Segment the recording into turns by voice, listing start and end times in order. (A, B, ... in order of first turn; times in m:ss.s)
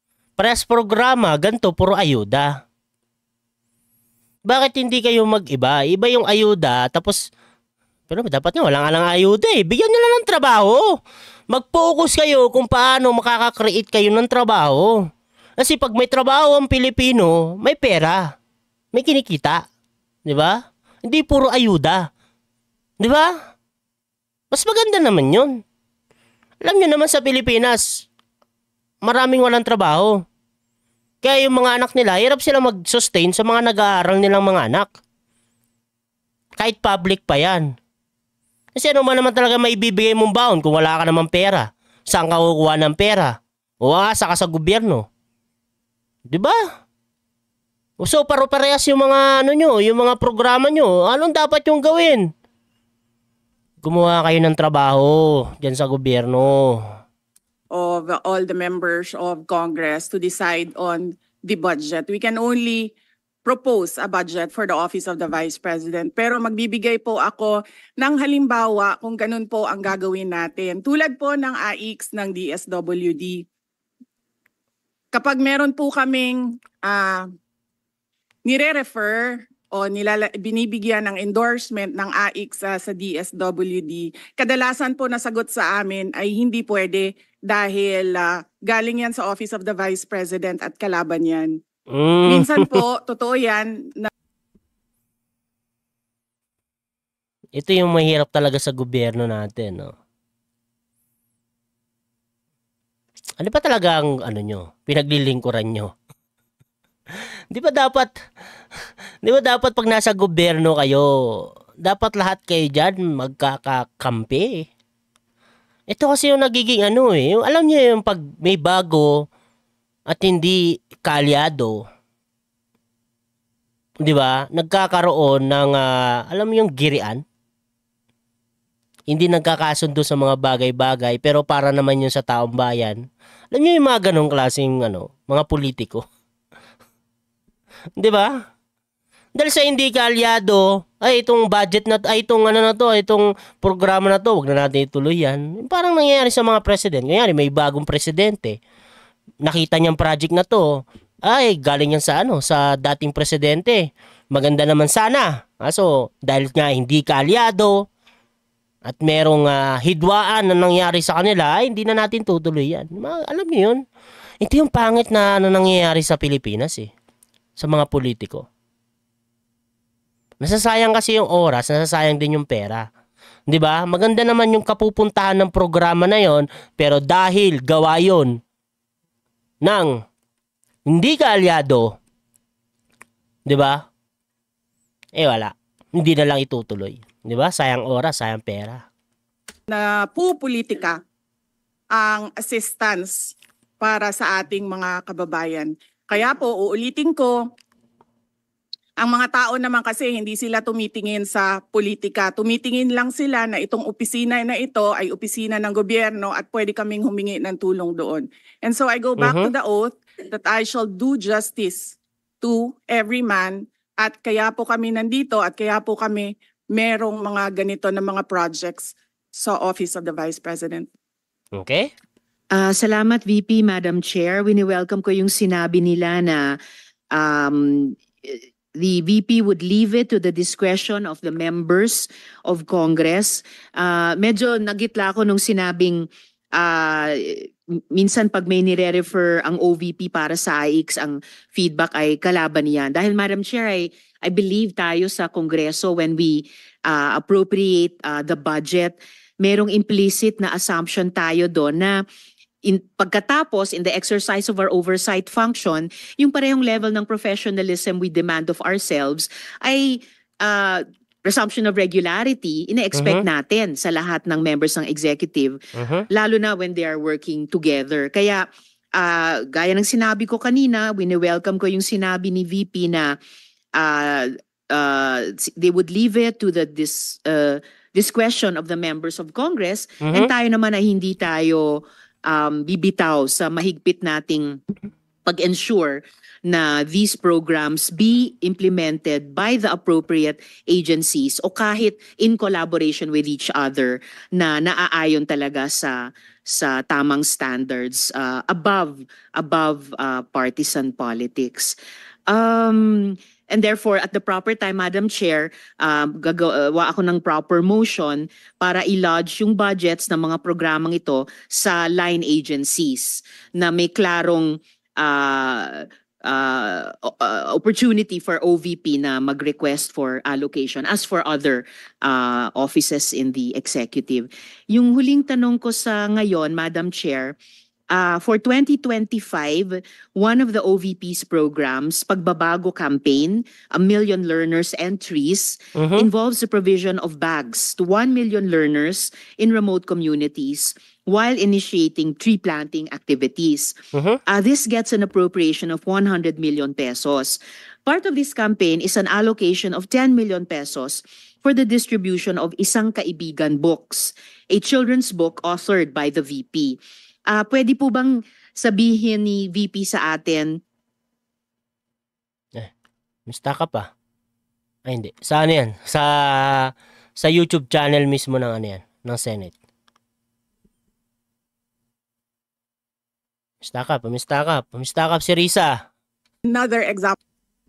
0:00.4-0:02.6 A
0:04.5-0:07.2 A
0:08.1-0:10.8 A
0:11.5-0:15.0 A
0:15.6-0:18.4 A
0:18.9-0:19.7 A
0:20.2-0:22.1 A
0:23.0-0:23.3 A
0:24.5-0:25.6 A
0:26.6-0:28.1 A
0:29.0-0:30.2 A
0:31.2-0:34.9 A
0:36.6-0:37.7 A
0:38.8-0:45.1 A
0:46.3-0:46.6 A
0:48.0-0:52.2 A
0:53.8-0:56.8 A
0:57.7-1:02.9 B
1:03.5-1:13.4 B
1:15.1-1:17.2 B
1:18.5-1:31.6 B
1:31.9-1:32.8 A
1:32.3-1:34.1 B
1:37.6-1:39.9 A
1:43.4-1:45.9 A
1:47.5-1:48.1 A
1:49.2-1:54.7 A
1:55.9-1:59.2 A
2:00.1-2:01.8 A
2:04.0-2:07.2 A
2:09.1-2:13.0 A
2:13.5-2:16.0 A
2:18.0-2:18.3 A
2:19.4-2:28.6 A
2:29.4-2:37.8 A
2:38.9-2:43.8 A
2:44.4-2:46.9 A
2:47.6-2:48.5 A
2:50.4-2:52.9 A
2:53.5-2:58.4 A
2:59.6-2:59.9 A
3:00.9-3:02.0 A
3:03.5-3:03.9 A
3:05.2-3:08.8 A
3:09.7-3:11.0 B
3:11.9-3:17.4 B
3:19.0-3:40.9 B
3:29.2-3:29.5 A
3:41.6-3:41.9 A
3:42.5-3:46.6 C
3:47.1-4:12.0 C
4:12.6-4:25.6 C
4:23.0-4:23.2 A
4:25.8-4:26.1 A
4:26.1-4:28.5 C
4:29.0-4:33.2 C
4:33.8-4:44.6 C
4:40.0-4:40.3 A
4:45.2-5:01.7 C
5:02.3-5:27.4 C
5:27.9-5:43.8 C
5:35.8-5:36.1 A
5:43.9-5:44.2 A
5:44.3-5:56.8 C
5:57.3-6:00.6 C
6:03.3-6:03.9 A
6:04.9-6:09.5 A
6:13.6-6:15.8 A
6:16.5-6:17.2 B